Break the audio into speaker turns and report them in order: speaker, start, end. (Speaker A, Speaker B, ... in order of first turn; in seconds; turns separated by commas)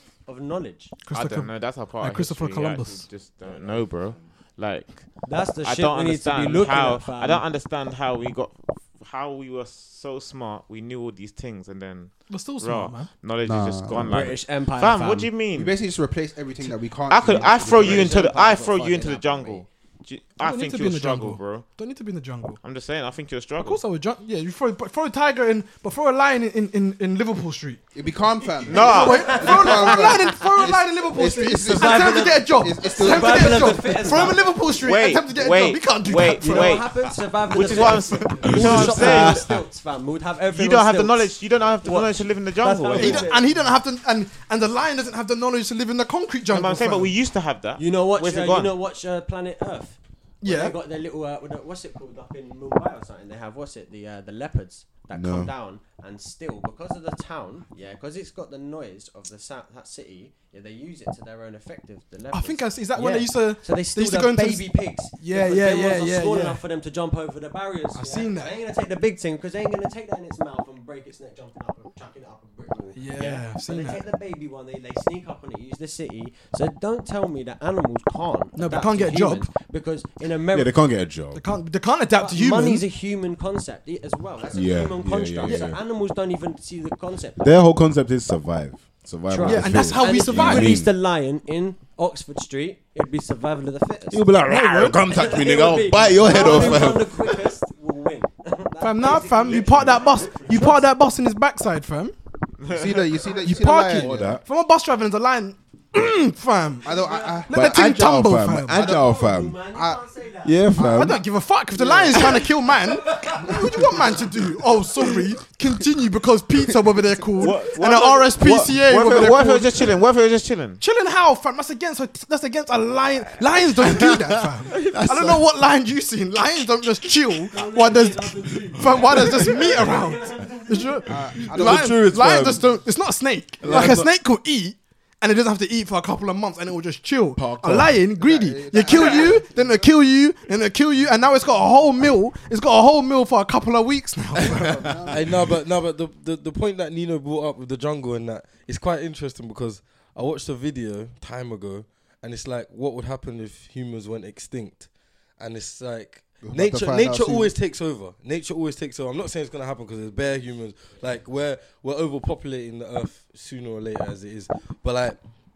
Speaker A: 0.2-0.9, Speaker B: 1.0-3.1, Speaker C: 1.1-15.8, Speaker A: 5.2-7.4, Speaker B: 12.3-13.1, Speaker D: 13.4-14.2, Speaker A: 14.0-15.3, Speaker D: 15.5-18.3, Speaker C: 17.1-21.7, Speaker A: 17.3-19.6, Speaker B: 20.4-22.6, Speaker C: 22.6-23.8, Speaker B: 23.6-27.8, Speaker D: 27.9-34.3, Speaker C: 28.6-29.7, Speaker B: 28.7-36.8, Speaker A: 29.1-30.3, Speaker A: 31.7-34.5, Speaker C: 34.7-39.5, Speaker A: 36.4-43.5, Speaker B: 37.6-39.1, Speaker E: 38.4-39.6, Speaker C: 40.5-43.3, Speaker B: 42.9-47.1, Speaker C: 46.5-48.7, Speaker A: 47.8-80.8, Speaker B: 50.4-50.8, Speaker E: 55.1-55.5, Speaker B: 62.3-66.6, Speaker B: 67.9-68.6, Speaker B: 72.9-74.0, Speaker B: 78.5-79.5, Speaker E: 80.5-81.4, Speaker B: 81.3-82.8, Speaker A: 82.1-87.5, Speaker E: 84.5-85.8, Speaker E: 87.4-90.9, Speaker A: 89.3-94.3, Speaker B: 89.4-90.8, Speaker E: 94.1-97.5, Speaker B: 94.5-95.0, Speaker A: 94.9-100.9, Speaker B: 96.3-96.8, Speaker B: 98.8-102.1, Speaker C: 102.6-103.1, Speaker D: 102.7-104.4, Speaker B: 103.4-106.9, Speaker E: 103.9-104.4, Speaker D: 106.8-108.0, Speaker A: 106.8-107.5, Speaker B: 107.5-108.8, Speaker E: 107.5-109.6, Speaker D: 108.7-110.0, Speaker A: 108.7-110.6, Speaker E: 110.4-111.2, Speaker D: 110.8-111.1, Speaker B: 110.8-119.9, Speaker D: 111.8-112.4, Speaker A: 113.0-113.9, Speaker D: 113.5-114.2, Speaker C: 117.4-120.8, Speaker B: 120.8-144.9, Speaker C: 124.7-125.0, Speaker E: 124.9-125.4, Speaker A: 127.5-131.2, Speaker D: 131.1-132.0, Speaker E: 131.4-132.7, Speaker E: 133.6-134.1, Speaker E: 137.3-138.0, Speaker D: 138.2-139.9, Speaker D: 144.4-145.5, Speaker F: 145.1-165.2, Speaker D: 156.4-157.5